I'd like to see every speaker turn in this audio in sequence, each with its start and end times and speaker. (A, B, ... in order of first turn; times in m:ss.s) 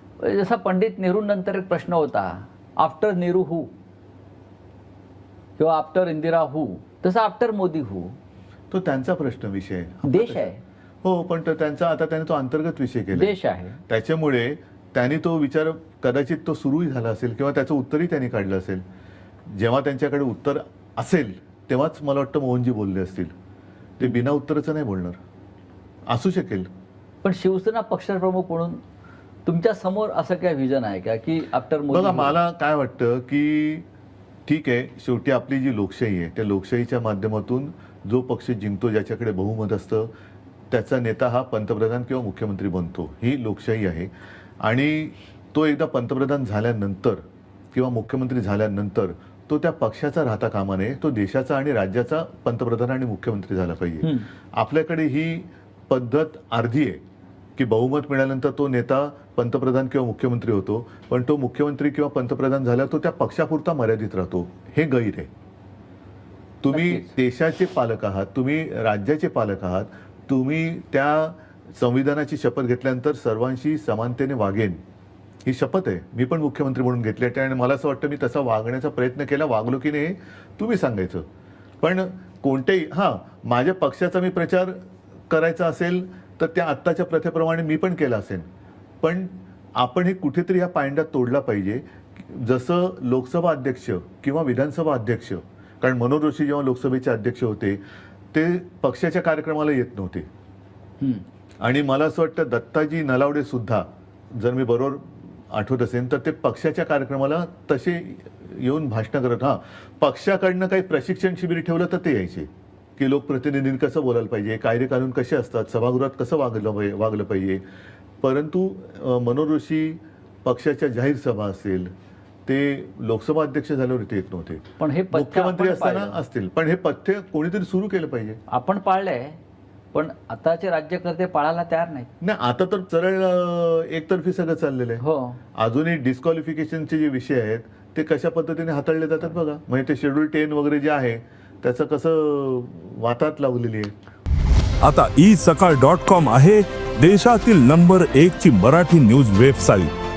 0:00.2-0:03.7 A
0:05.6-0:08.2 A
0:08.7-0:10.5 B
0:10.0-0:10.6 A
0:11.0-0:13.4 B
0:13.1-0:13.8 A
0:13.9-0:18.8 B
0:19.5-0:23.3 B
0:24.0-0:25.2 B
0:26.1-0:26.7 B
0:27.2-0:28.8 A
0:29.4-0:32.4 A
0:31.9-0:33.8 B
0:34.4-0:40.1 B
0:40.7-0:57.0 B
0:57.6-1:05.3 B
1:06.6-1:14.8 B
1:06.7-1:07.1 A
1:15.4-1:21.2 B
1:21.8-1:28.5 B
1:29.0-1:37.8 B
1:38.3-1:40.2 B
1:41.6-1:57.6 B
1:58.2-2:01.9 B
2:02.4-2:08.4 B
2:04.8-2:06.2 A
2:08.5-2:09.4 A
2:09.9-2:12.1 A
2:12.2-2:15.0 B
2:15.0-2:15.4 A
2:15.6-2:23.9 B
2:24.8-2:29.9 C